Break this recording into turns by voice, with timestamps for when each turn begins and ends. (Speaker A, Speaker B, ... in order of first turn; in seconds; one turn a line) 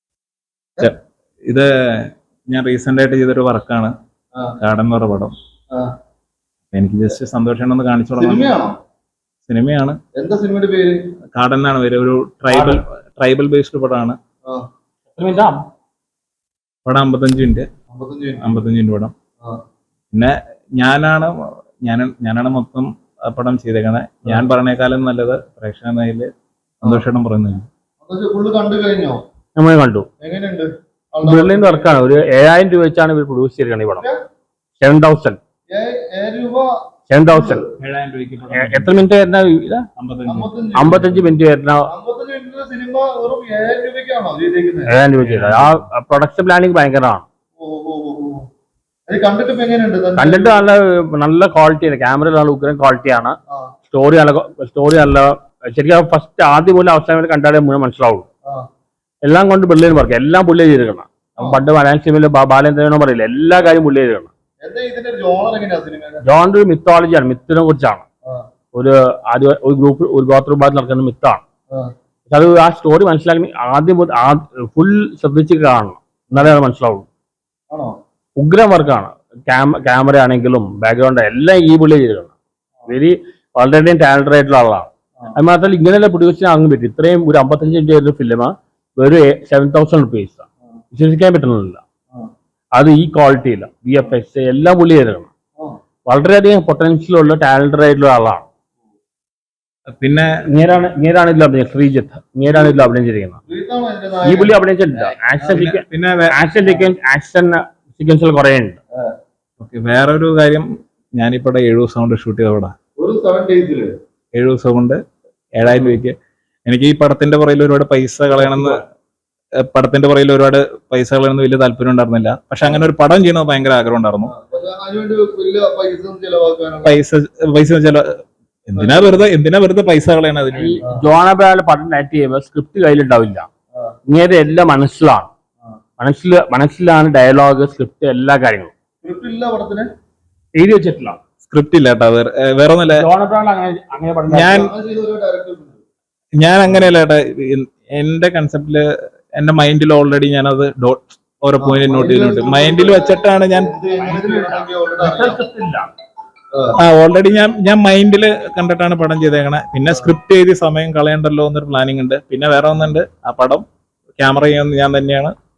Speaker A: 0.8-3.9
Speaker A: 4.6-5.3
Speaker A: 6.7-8.5
Speaker B: 8.2-8.7
Speaker A: 9.5-10.0
Speaker B: 10.2-10.9
Speaker A: 11.3-14.2
Speaker C: 12.5-12.8
Speaker C: 15.1-15.6
Speaker A: 16.9-17.7
Speaker B: 17.9-18.7
Speaker A: 18.4-19.1
Speaker A: 20.1-21.3
Speaker A: 21.8-26.3
Speaker A: 26.8-27.6
Speaker B: 28.0-29.2
Speaker C: 29.6-30.1
Speaker B: 30.2-32.0
Speaker C: 31.2-34.0
Speaker C: 34.8-35.4
Speaker B: 35.7-36.7
Speaker C: 37.1-37.6
Speaker B: 37.2-37.6
Speaker A: 37.8-39.0
Speaker C: 38.5-39.9
Speaker A: 40.0-41.2
Speaker B: 40.3-41.1
Speaker C: 40.8-41.9
Speaker B: 41.9-44.9
Speaker C: 44.9-47.2
Speaker A: 45.2-45.8
Speaker B: 47.6-48.5
Speaker B: 49.1-50.6
Speaker C: 50.2-53.4
Speaker C: 53.9-58.2
Speaker C: 59.2-64.3
Speaker B: 64.6-66.2
Speaker C: 66.2-68.0
Speaker C: 68.7-71.4
Speaker C: 72.3-77.0
Speaker B: 77.7-77.9
Speaker C: 78.4-82.3
Speaker C: 82.9-91.8
Speaker C: 92.7-95.3
Speaker C: 96.1-98.4
Speaker A: 99.9-100.3
Speaker C: 100.5-103.4
Speaker B: 102.5-102.9
Speaker B: 103.5-105.6
Speaker C: 104.2-108.8
Speaker A: 105.5-106.3
Speaker B: 106.6-106.9
Speaker A: 109.6-112.7
Speaker B: 113.0-113.9
Speaker A: 114.3-115.0
Speaker A: 115.5-116.1
Speaker B: 115.6-116.0
Speaker A: 116.7-118.8
Speaker B: 118.3-118.7
Speaker A: 119.7-124.3
Speaker B: 124.2-127.0
Speaker A: 126.8-130.8
Speaker B: 128.7-129.2
Speaker C: 130.5-133.5
Speaker C: 134.1-135.3
Speaker C: 136.0-138.7
Speaker B: 139.0-139.9
Speaker C: 140.6-141.2
Speaker A: 141.4-143.0
Speaker C: 142.8-144.7
Speaker A: 144.3-144.7
Speaker B: 144.4-145.8
Speaker A: 146.4-148.8
Speaker B: 146.6-146.9
Speaker A: 149.4-153.7
Speaker B: 151.6-155.4
Speaker C: 153.9-155.9
Speaker A: 156.8-163.6
Speaker A: 164.2-165.3